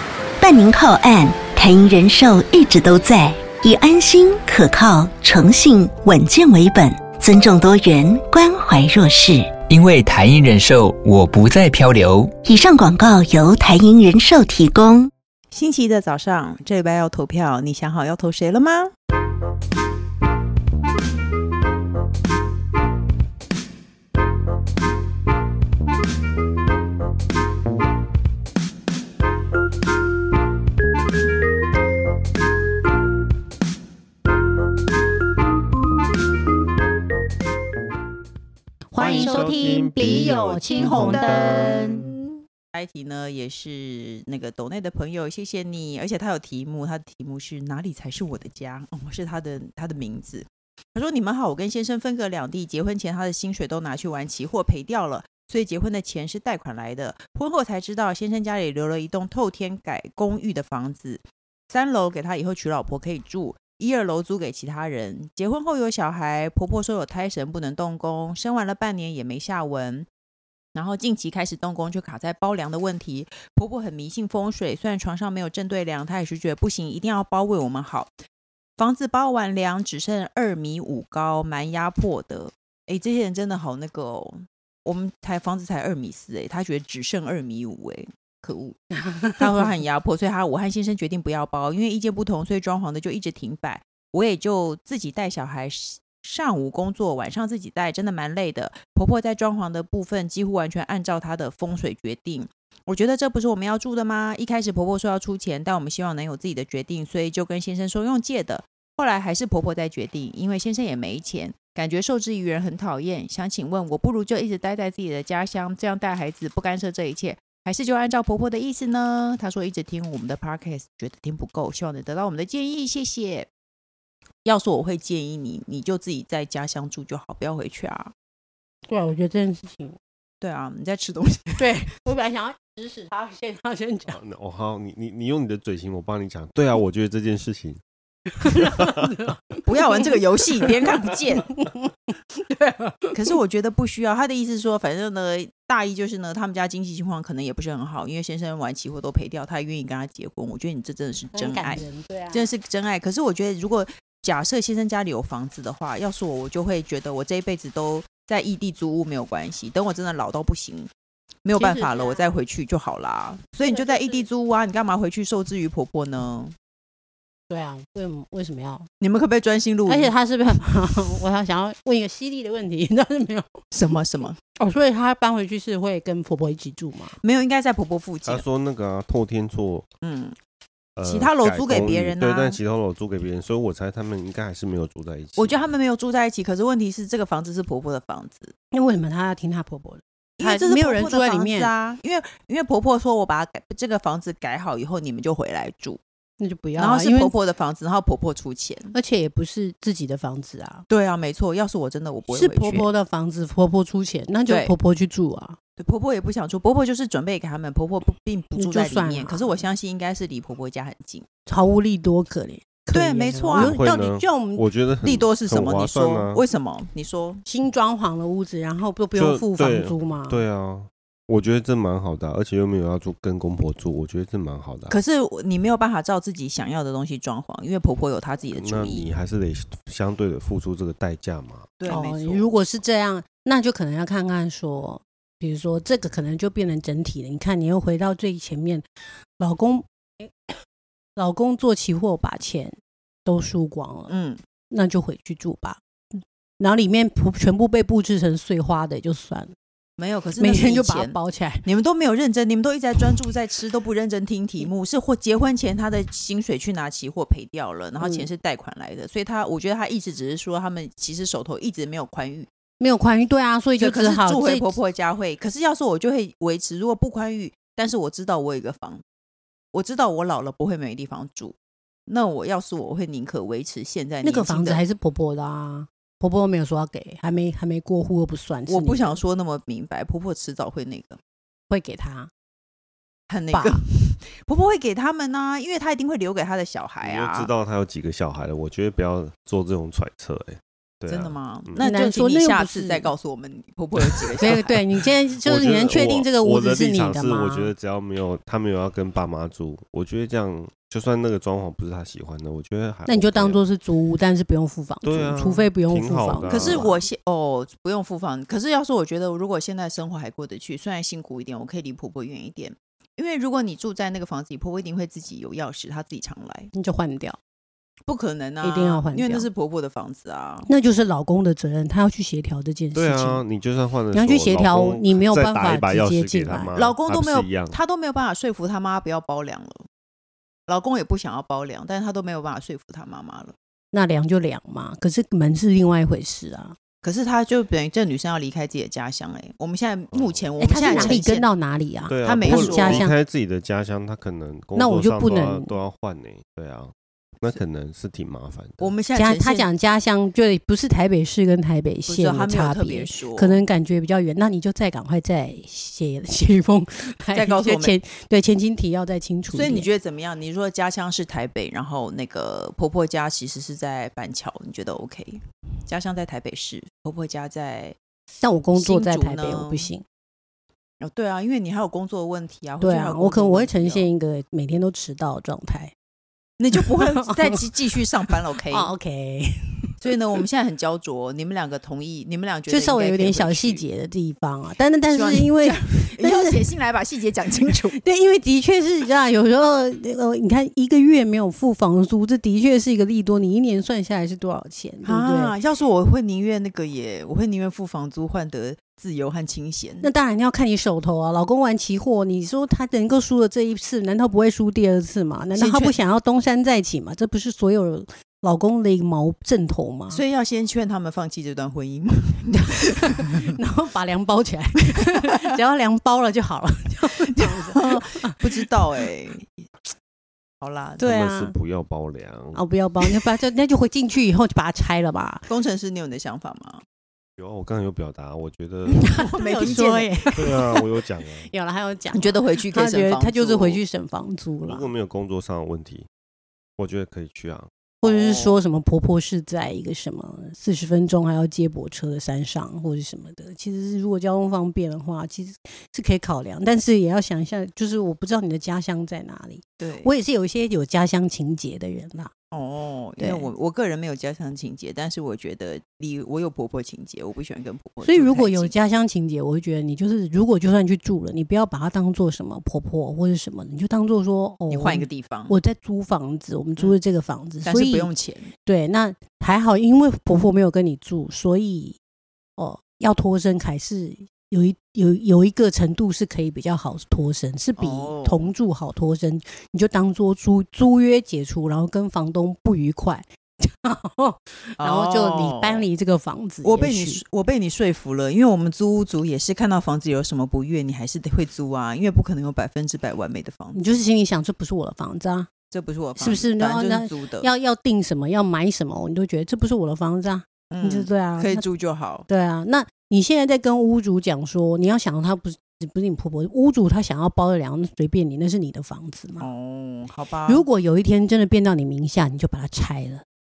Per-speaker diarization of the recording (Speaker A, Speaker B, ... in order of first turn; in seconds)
Speaker A: 0.4-9.6, 12.4-15.1
Speaker B: 9.7-12.4
Speaker C: 15.5-18.9, 39.2-39.5, 40.0-70.1, 70.8-78.1, 78.8-123.5, 124.5-128.1, 130.4-131.8, 139.6-141.5, 143.1-160.9, 161.4-166.6, 169.0-170.1, 173.7-174.4, 177.2-178.4, 180.0-180.4, 181.1-182.6, 185.4-188.5, 190.4-196.0, 196.8-198.9, 200.9-202.9, 204.5-204.7, 205.8-211.3, 212.9-213.8, 215.0-217.4, 224.9-229.1, 231.8-232.5, 244.1-244.4, 250.0-262.5, 263.8-269.0, 269.7-271.6, 272.1-274.8, 278.7-281.2, 283.3-287.5, 291.1-294.8, 306.5-316.7, 318.1-320.7, 326.7-329.8, 330.7-333.5, 337.0-341.5, 342.2-343.1, 348.8-349.7, 352.1-353.6, 357.3-358.0, 359.5-368.0, 368.7-369.9, 371.0-374.1, 376.6-378.9, 380.0-383.8, 385.1-388.0, 395.0-400.1, 405.6-406.0, 410.1-413.4, 414.9-415.2, 417.4-419.5, 420.6-421.1, 425.5-426.8, 429.1-430.6, 432.1-433.8, 438.0-438.6, 449.8-450.1, 452.5-458.7, 464.7-465.6, 467.6-468.5, 477.8-478.5, 484.8-485.9, 486.6-493.8, 495.7-497.5, 500.7-502.3, 509.4-510.6
Speaker D: 38.9-42.1, 89.1-89.4, 128.9-130.0, 131.6-134.2, 138.4-140.1, 141.6-143.2, 151.3-152.5, 161.5-162.3, 163.6-164.3, 167.5-168.9, 169.9-173.7, 174.6-177.2, 188.7-191.7, 196.4-197.3, 198.9-200.8, 202.3-205.6, 208.6-209.7, 211.5-214.6, 217.4-220.4, 231.9-238.9, 239.4-240.6, 241.2-244.1, 244.7-245.8, 246.6-249.5, 250.4-251.7, 258.0-258.3, 262.8-264.8, 274.2-279.2, 281.7-282.3, 283.5-283.8, 291.8-293.1, 294.4-297.7, 303.1-307.0, 316.7-317.4, 318.6-319.5, 320.7-323.4, 324.1-326.7, 333.9-336.8, 340.6-343.2, 344.8-345.8, 349.1-359.9, 368.4-370.0, 372.8-375.9, 376.9-377.6, 378.7-379.9, 382.7-386.7, 387.9-395.6, 400.0-410.2, 412.6-418.4, 421.0-421.6, 422.5-425.5, 428.9-430.8, 431.5-434.9, 438.0-452.3, 453.2-453.5, 458.0-468.1, 468.6-472.0, 472.6-487.2, 493.7-495.5, 496.2-501.6, 502.3-509.5, 510.5-513.2
Speaker E: 39.0-42.2, 134.1-137.8, 138.4-139.1, 178.2-179.9, 181.0-185.7, 213.5-216.4, 219.1-224.9, 228.5-231.7, 287.0-291.9, 294.4-294.7, 295.4-303.6, 305.0-306.9, 322.9-327.8, 340.1-341.2, 342.1-348.9, 421.0-422.6, 427.4-429.8, 430.3-431.5, 434.6-436.1, 436.8-437.7